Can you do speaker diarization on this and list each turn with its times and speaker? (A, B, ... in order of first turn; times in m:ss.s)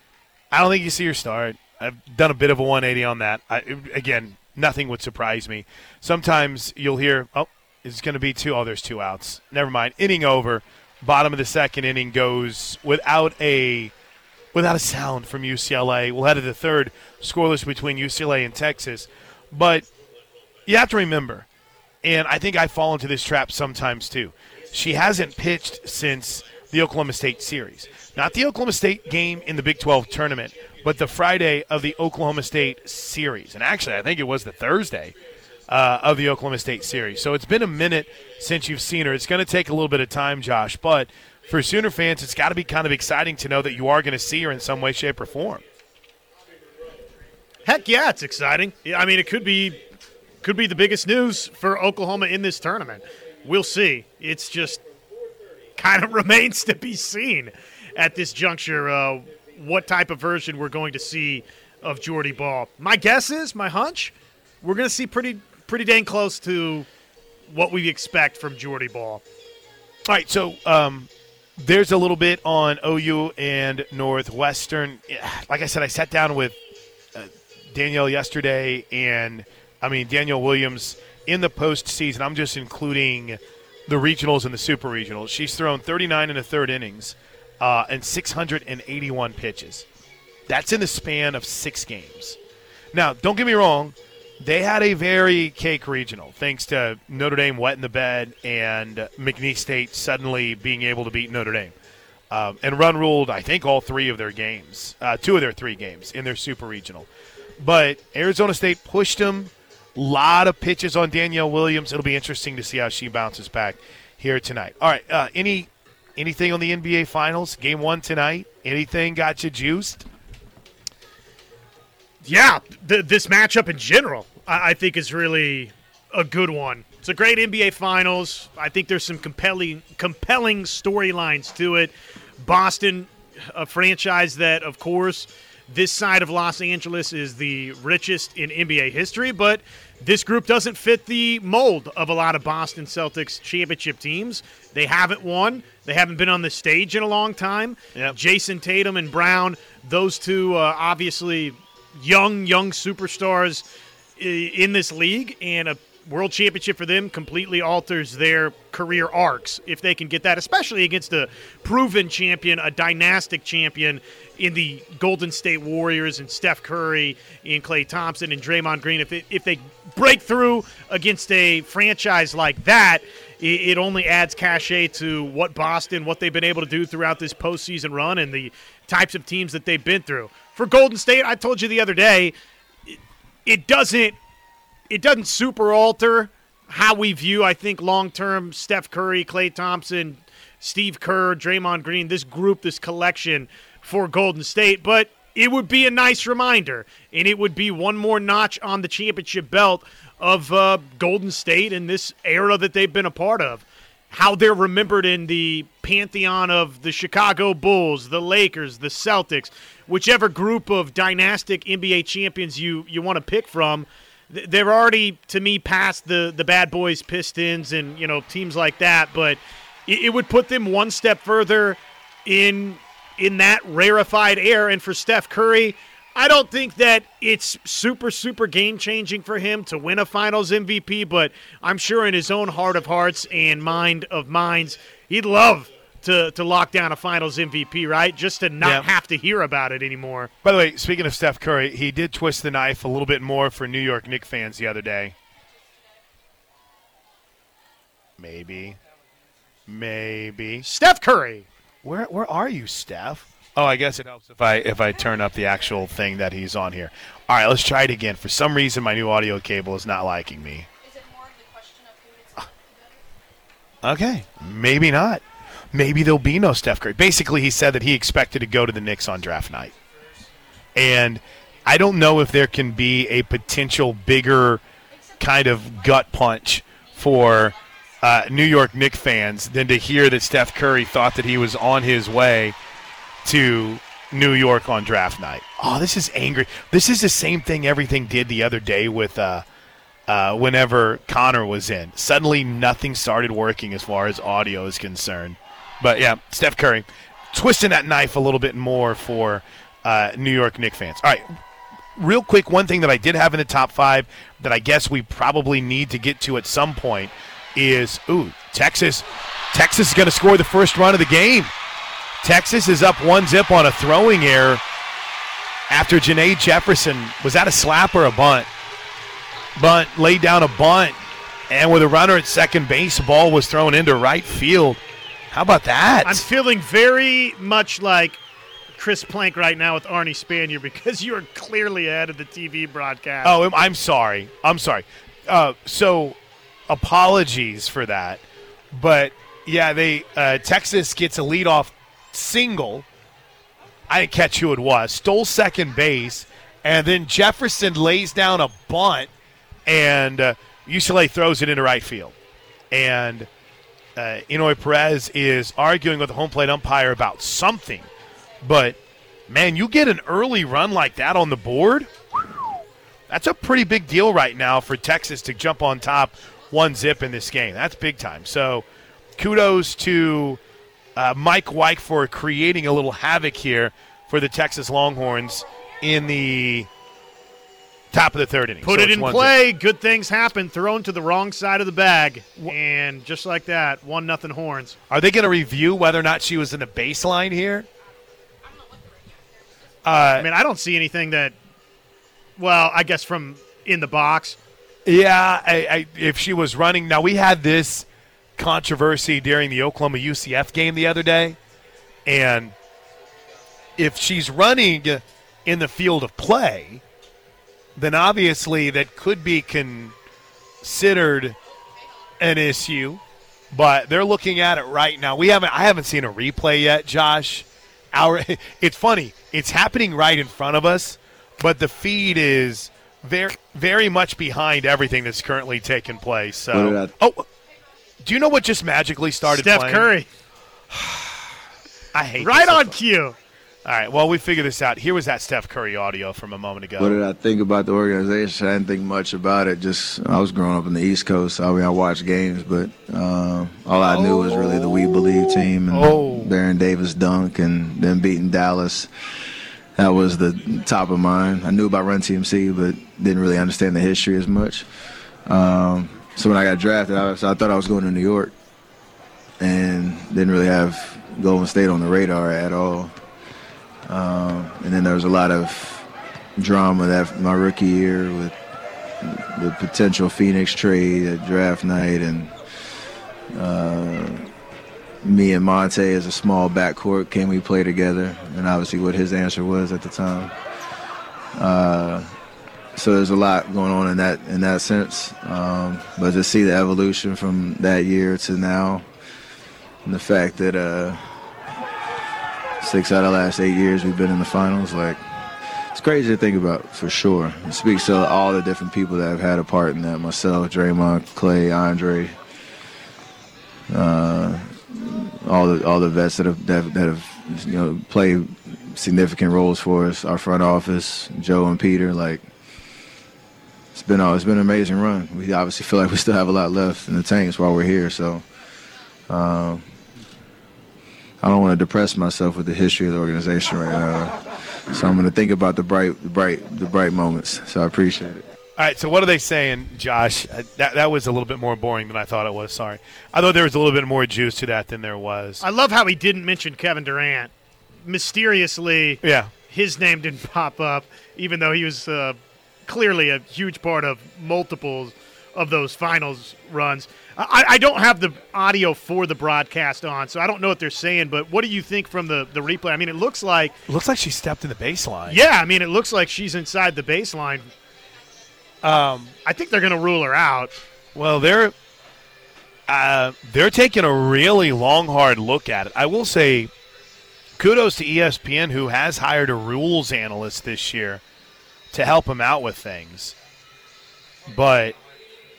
0:00.5-0:13.9 A
0:14.5-0:19.9 A
0:20.7-0:21.5 A
0:22.0-0:35.1 A
0:35.7-0:45.6 A
0:47.6-0:49.8 B
0:50.4-0:54.8 B
0:55.8-1:06.9 B
1:07.5-1:09.2 B
1:10.0-1:16.6 A
1:17.1-1:29.8 A
1:30.5-1:32.4 A
1:32.9-1:41.7 A
1:42.3-1:47.1 A
1:47.6-2:00.0 A
2:02.2-2:33.6 B
2:34.2-3:02.3 B
3:02.9-3:04.2 B
3:04.9-4:00.3 B
3:58.6-3:58.9 A
4:00.4-4:05.1 A
4:08.2-4:08.8 A
4:09.7-4:10.6 A
4:10.6-4:11.5 B
4:11.8-4:20.7 A
4:23.8-4:25.2 A
4:25.7-4:29.7 A
4:30.7-4:34.6 A
4:35.2-4:42.5 A
4:43.2-4:49.4 A
4:50.1-5:01.3 A
5:02.0-5:11.5 A
5:12.2-5:14.6 A
5:15.7-5:18.5 A
5:19.6-5:21.0 A
5:21.5-5:26.2 A
5:26.0-5:28.2 B
5:28.7-5:33.4 B
5:33.2-5:36.2 A
5:36.7-5:42.8 A
5:43.9-5:49.1 A
5:49.6-5:52.1 A
5:52.7-5:53.3 A
5:54.0-5:57.9 A
5:58.4-5:58.8 A
5:59.3-6:02.5 A
6:03.1-6:08.6 A
6:09.2-6:10.4 A
6:11.0-6:16.7 A
6:17.9-6:19.4 A
6:18.6-6:24.8 B
6:24.9-6:27.7 A
6:29.8-6:30.3 A
6:30.2-6:31.4 B
6:32.4-6:34.4 B
6:34.8-6:37.8 A
6:38.4-6:41.4 A
6:42.0-6:42.5 A
6:43.8-6:46.8 A
6:47.8-6:49.9 A
6:50.6-6:51.4 A
6:52.2-6:53.0 A
6:53.5-7:07.2 A
7:06.5-7:06.9 C
7:08.0-7:09.9 A
7:09.2-7:10.1 B
7:11.9-7:12.8 A
7:12.2-7:13.2 B
7:13.6-7:17.0 A
7:16.8-7:28.9 C
7:23.9-7:25.0 A
7:25.7-7:26.3 A
7:29.8-7:34.6 C
7:35.3-7:38.3 C
7:39.4-7:42.9 C
7:43.9-7:48.4 C
7:49.0-7:52.3 C
7:53.4-7:54.3 C
7:55.0-8:00.3 C
8:01.4-8:02.1 C
8:02.8-8:08.9 C
8:09.8-8:11.0 C
8:12.6-8:15.0 C
8:15.7-8:22.1 C
8:23.7-8:32.3 C
8:33.7-8:38.2 C
8:39.1-8:39.6 C
8:41.2-8:44.2 C
8:44.7-8:48.2 C
8:48.6-8:55.4 A
8:55.4-8:57.3 B
8:57.8-9:13.6 B
8:59.0-8:59.3 A
9:13.7-9:15.2 A
9:15.1-9:17.5 B
9:18.6-9:19.1 A
9:19.2-9:20.5 B
9:20.9-9:21.5 A
9:22.7-9:26.5 A
9:27.4-9:31.0 A
9:31.7-9:33.2 A
9:34.3-9:34.7 A